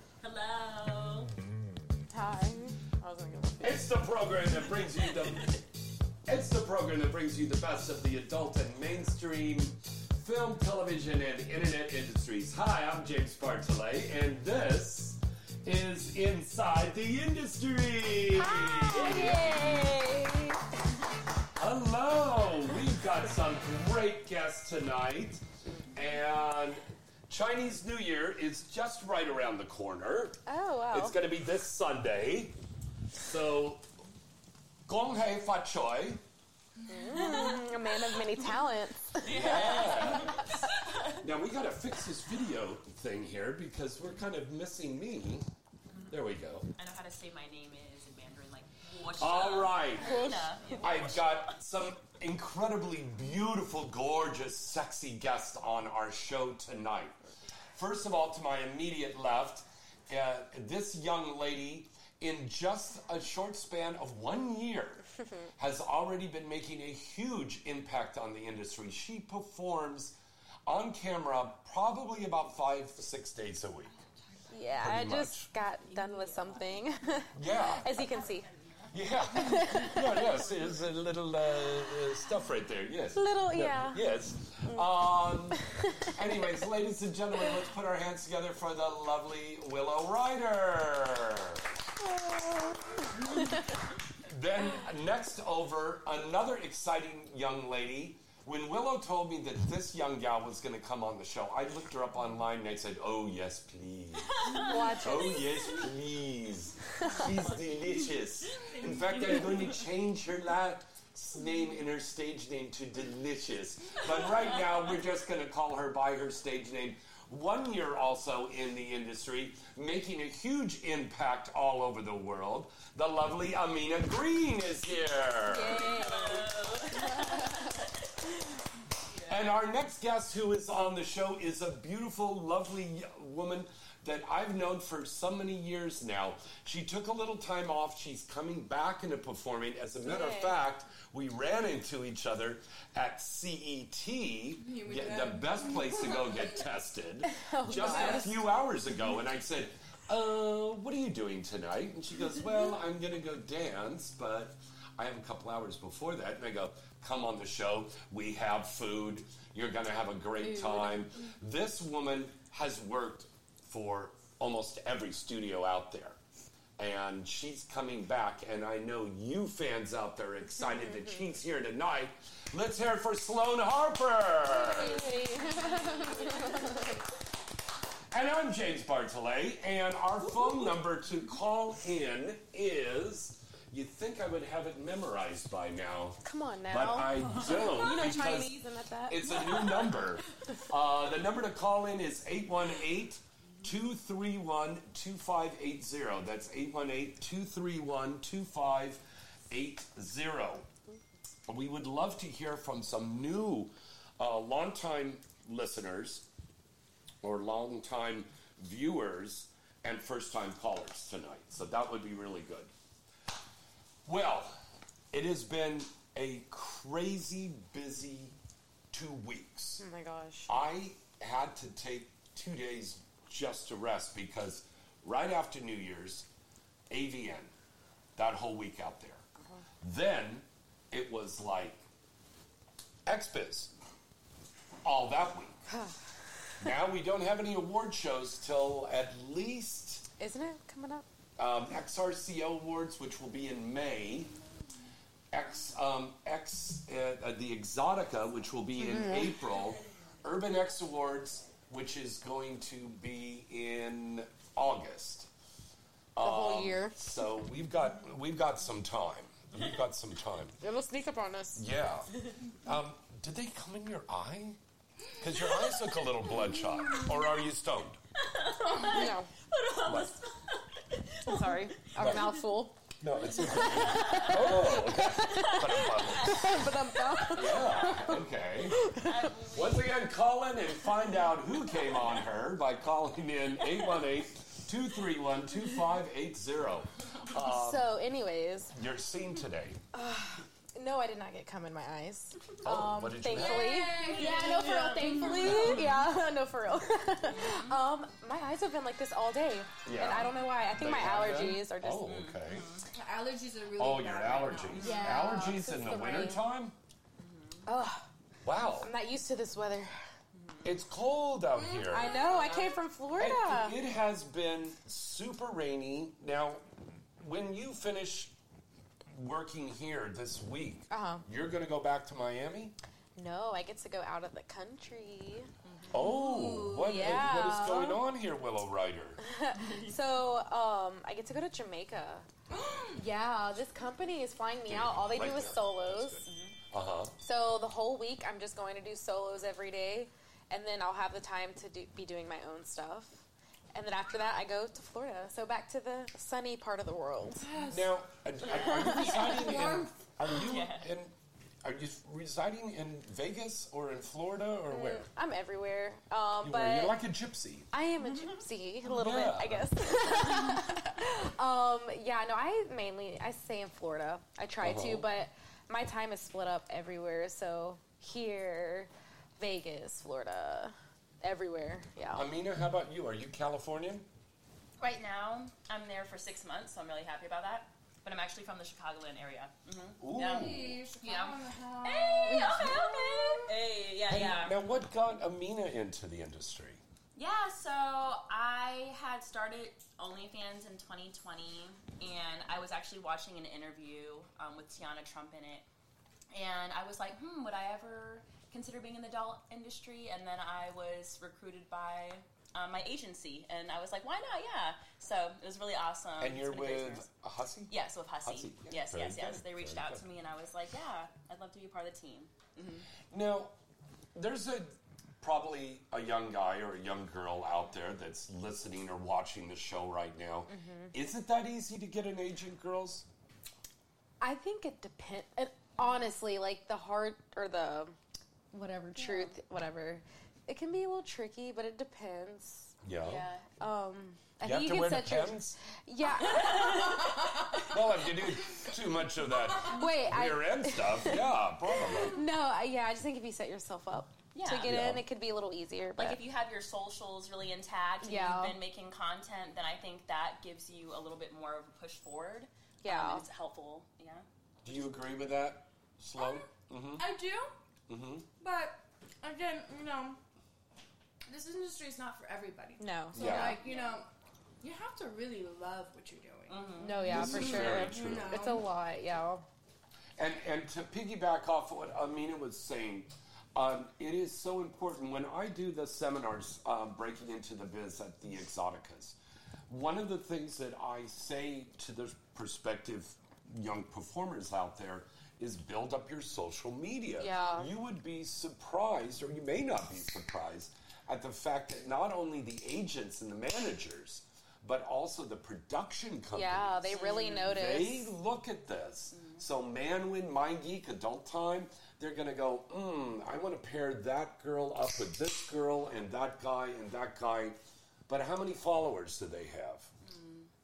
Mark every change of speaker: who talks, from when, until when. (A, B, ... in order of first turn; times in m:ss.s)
0:00.2-0:01.3 A
0:02.1-0:03.9 B
0:03.6-0:05.6 C
0:06.3-0:19.5 C
0:18.3-0:20.6 B
0:21.6-0:32.6 C
0:30.5-0:31.2 B
0:33.1-0:33.8 C
0:34.9-0:36.2 C
0:36.8-0:37.6 D
0:36.9-0:40.4 B
0:37.2-0:37.6 A
0:39.2-0:41.2 A
0:39.3-0:40.5 C
0:41.2-0:45.5 C
0:46.1-0:46.7 C
0:46.8-0:51.6 A
0:49.2-0:57.2 C
0:50.0-0:50.5 B
0:57.8-1:05.0 C
1:05.6-1:10.2 C
1:10.7-1:13.9 C
1:14.5-1:18.5 B
1:14.8-1:15.5 C
1:17.4-1:17.9 C
1:18.9-1:25.6 C
1:19.3-1:20.4 B
1:23.2-1:24.1 B
1:26.1-1:31.7 C
1:32.0-1:32.8 B
1:33.3-1:33.6 B
1:34.3-2:05.9 C
1:44.4-1:44.7 A
1:44.5-1:45.8 B
1:47.0-1:47.8 A
2:05.5-2:07.7 B
2:05.8-2:07.8 A
2:09.1-2:09.5 A
2:09.3-2:46.2 C
2:20.0-2:20.6 B
2:24.6-2:26.6 D
2:27.3-2:28.5 B
2:27.8-2:28.3 D
2:40.4-2:41.0 B
2:46.8-2:55.0 C
2:50.6-2:51.2 B
2:54.4-2:57.0 B
2:58.1-3:20.7 C
3:06.2-3:09.9 B
3:21.5-3:26.3 C
3:27.2-3:32.7 C
3:34.1-3:34.6 C
3:35.1-3:38.3 C
3:38.9-3:39.8 C
3:39.8-3:40.5 B
3:40.5-3:46.3 C
3:46.9-3:47.5 C
3:48.2-3:49.2 C
3:49.8-3:51.8 C
3:53.1-3:53.7 C
3:54.8-3:55.6 C
3:55.7-3:56.0 B
3:56.6-4:00.1 C
4:00.2-4:01.1 B
4:01.4-4:04.3 C
4:05.3-4:15.3 C
4:08.8-4:09.4 B
4:16.2-4:20.6 C
4:16.2-4:17.0 B
4:20.6-4:21.6 B
4:21.6-4:24.6 C
4:25.2-4:28.0 C
4:28.2-4:31.6 A
4:28.8-4:29.3 B
4:29.8-4:30.2 C
4:31.2-4:39.3 B
4:32.0-4:32.3 C
4:33.0-4:36.6 C
4:33.6-4:37.2 A
4:37.3-4:38.8 C
4:39.0-4:40.1 A
4:39.5-4:47.9 C
4:41.8-4:42.2 A
4:47.4-4:48.7 B
4:48.7-4:49.8 C
4:49.9-5:02.2 B
4:52.6-4:53.8 C
4:53.3-4:55.8 D
4:54.1-4:55.8 A
4:55.6-4:55.9 C
4:57.3-4:57.8 A
4:59.8-5:02.7 C
5:02.1-5:02.9 A
5:02.9-5:05.2 D
5:03.8-5:06.8 C
5:04.8-5:05.0 A
5:04.8-5:06.4 B
5:07.2-5:07.6 A
5:07.7-5:08.1 B
5:08.4-5:08.9 C
5:08.8-5:10.0 B
5:10.4-5:10.7 A
5:10.6-5:12.5 C
5:11.6-5:12.5 D
5:11.9-5:13.8 B
5:13.2-5:16.6 C
5:17.2-5:18.3 C
5:19.1-5:22.7 C
5:20.9-5:21.2 B
5:23.2-5:25.5 B
5:25.9-5:29.2 C
5:25.9-5:27.2 D
5:26.7-5:28.0 B
5:29.2-5:32.3 B
5:29.6-5:29.9 A
5:32.5-5:33.0 D
5:33.0-5:36.3 B
5:34.7-5:37.2 C
5:37.2-5:43.2 B
5:43.7-5:47.5 B
5:47.4-5:47.9 D
5:47.7-5:51.1 C
5:48.4-5:49.5 A
5:48.5-5:49.8 B
5:49.5-5:49.8 D
5:50.4-5:50.9 A
5:51.6-5:55.1 C
5:54.7-5:57.0 B
5:56.4-5:57.7 C
5:57.7-6:12.3 B
5:58.9-5:59.7 C
6:04.6-6:05.1 C
6:12.1-6:14.1 C
6:14.8-6:24.6 A
6:20.0-6:20.8 C
6:20.2-6:23.5 D
6:22.3-6:23.4 B
6:24.1-6:26.8 C
6:27.2-6:35.6 A
6:36.3-6:47.1 A
6:46.2-6:50.0 C
6:47.7-6:52.9 A
6:53.1-6:53.5 C
6:54.2-7:03.1 C
7:00.5-7:00.9 B
7:04.2-7:08.0 B
7:08.5-7:12.7 B
7:09.0-7:09.4 A
7:12.8-7:13.3 C
7:13.0-7:13.5 A
7:13.6-7:17.1 B
7:14.4-7:15.6 C
7:16.2-7:16.8 A
7:16.8-7:17.7 D
7:17.7-7:22.2 C
7:19.6-7:21.3 B
7:22.0-7:26.2 B
7:24.3-7:24.7 A
7:24.7-7:25.0 C
7:26.0-7:34.3 A
7:28.0-7:28.6 B
7:32.8-7:33.2 B
7:34.6-7:37.1 C
7:36.2-7:37.5 D
7:37.9-7:38.3 C
7:38.4-7:40.2 D
7:41.3-7:44.1 D
7:42.8-7:43.7 B
7:43.1-7:43.6 C
7:43.7-7:44.0 A
7:44.6-7:48.7 D
7:46.5-7:47.2 A
7:46.8-7:49.4 B
7:47.0-7:48.4 C
7:50.2-7:59.2 C
7:59.7-8:29.9 C
8:07.2-8:07.7 B
8:16.3-8:18.1 B
8:16.9-8:17.6 A
8:19.1-8:19.4 A
8:30.1-8:30.5 A